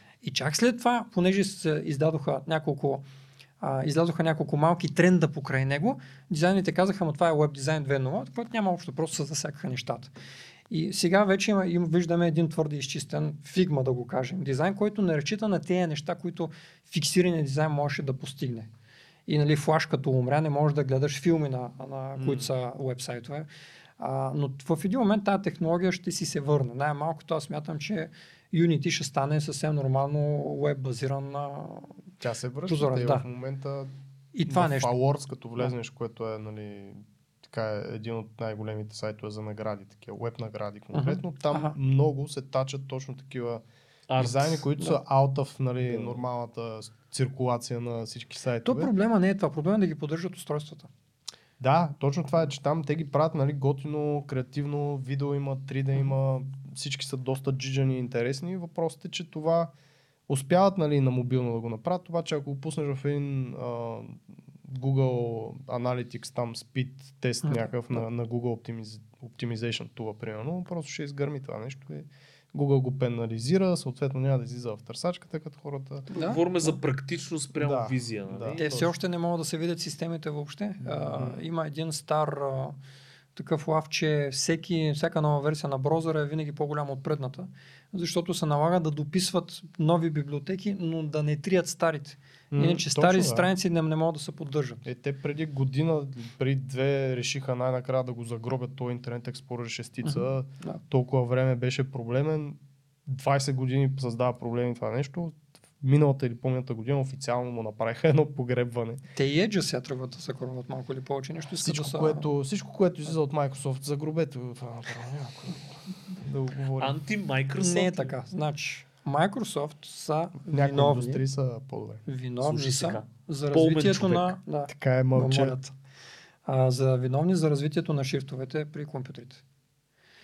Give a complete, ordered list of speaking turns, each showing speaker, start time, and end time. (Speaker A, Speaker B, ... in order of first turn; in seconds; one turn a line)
Speaker A: 0.2-3.0
Speaker A: 3.6-10.1
Speaker A: 10.7-18.7
Speaker A: 19.3-23.5
Speaker A: 24.0-31.9
Speaker B: 32.2-33.9
Speaker A: 32.7-33.2
Speaker A: 34.3-34.9
Speaker B: 34.5-43.6
Speaker A: 40.9-41.8
Speaker C: 44.1-44.6
Speaker B: 44.2-48.9
Speaker A: 48.6-50.9
Speaker B: 51.6-59.7
Speaker B: 60.3-76.1
Speaker A: 67.4-68.0
Speaker A: 76.1-76.7
Speaker C: 76.2-78.8
Speaker B: 77.6-78.9
Speaker A: 78.6-82.8
Speaker C: 80.8-81.2
Speaker A: 83.3-94.9
Speaker B: 92.5-93.5
Speaker B: 94.8-109.0
Speaker A: 100.0-100.8
Speaker A: 109.2-112.3
Speaker B: 111.6-117.0
Speaker C: 116.8-118.2
Speaker A: 117.6-121.2
Speaker B: 120.5-122.0
Speaker A: 122.1-125.7
Speaker C: 122.4-124.4
Speaker B: 124.7-125.6
Speaker A: 126.5-129.4